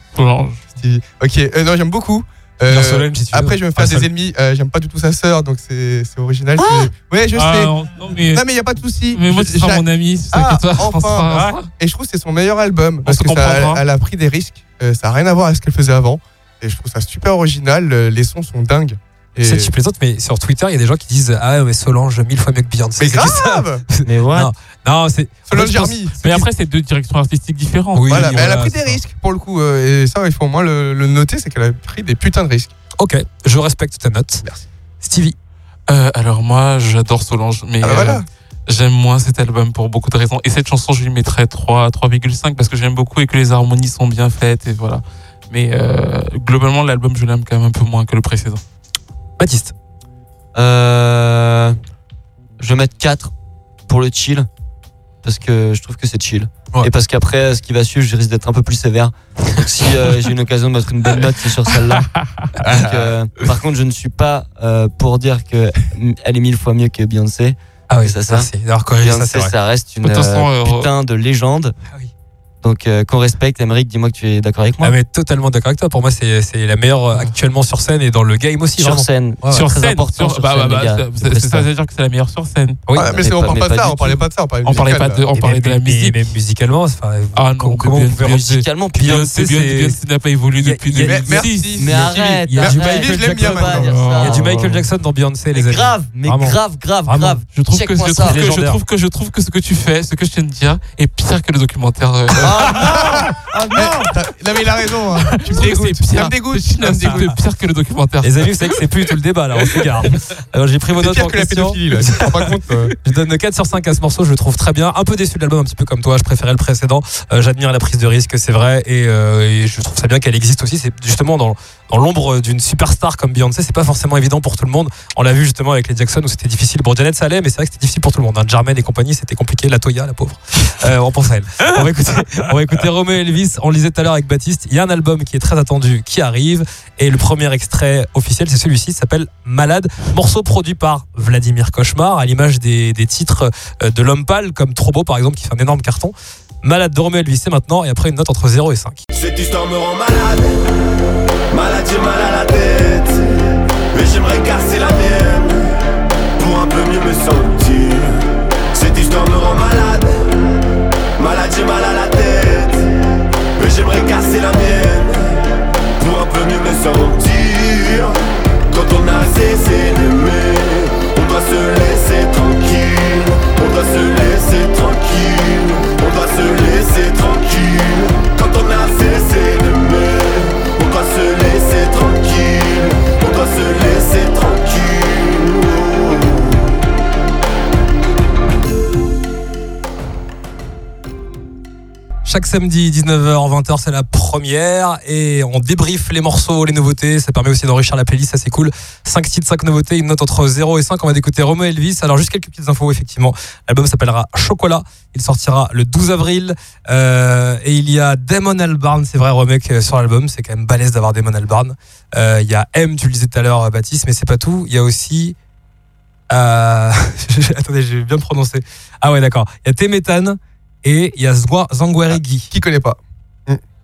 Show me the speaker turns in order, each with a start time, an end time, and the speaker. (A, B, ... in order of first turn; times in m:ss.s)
0:00.1-0:00.7 A
0:00.7-0:07.7 B
0:02.7-0:04.1 C
0:07.3-0:08.4 A
0:08.3-0:19.7 B
0:09.1-0:11.7 A
0:11.3-0:11.6 C
0:13.0-0:13.8 A
0:19.4-0:26.5 C
0:23.0-0:23.8 B
0:24.0-0:24.5 D
0:25.5-0:26.1 B
0:26.2-0:28.6 A
0:27.9-0:29.0 C
0:28.1-0:32.7 B
0:33.0-0:34.4 C
0:35.0-0:35.4 C
0:35.9-0:48.6 A
0:37.8-0:38.2 B
0:49.4-0:49.7 C
0:50.6-0:51.8 D
0:52.6-0:53.3 D
0:53.9-0:54.5 D
0:55.2-1:02.1 D
1:02.0-1:02.5 A
1:02.6-1:03.1 B
1:02.7-1:11.8 D
1:07.9-1:09.5 C
1:10.0-1:10.9 A
1:12.6-1:15.0 D
1:14.8-1:19.7 C
1:18.8-1:21.7 D
1:19.5-1:22.8 A
1:23.0-1:25.2 B
1:23.0-1:24.2 D
1:24.6-1:26.3 A
1:25.4-1:30.0 C
1:27.4-1:32.5 A
1:28.2-1:29.1 D
1:30.6-1:37.4 C
1:31.0-1:31.9 B
1:31.8-1:34.5 D
1:32.6-1:33.9 B
1:33.7-1:34.9 A
1:35.5-1:38.4 D
1:37.5-1:42.8 A
1:38.2-1:38.8 C
1:42.4-1:43.9 D
1:42.4-1:47.3 B
1:45.3-1:48.8 A
1:48.2-2:29.0 C
1:49.7-1:50.2 A
1:51.0-1:52.9 B
2:29.1-2:30.6 E
2:31.5-2:33.3 E
2:33.9-2:35.7 E
2:36.4-2:40.2 E
2:41.2-2:42.9 E
2:43.6-2:45.3 E
2:46.0-2:48.2 E
2:48.7-3:06.6 E
3:12.3-3:35.4 C
3:36.3-3:42.5 C
3:42.5-3:43.6 B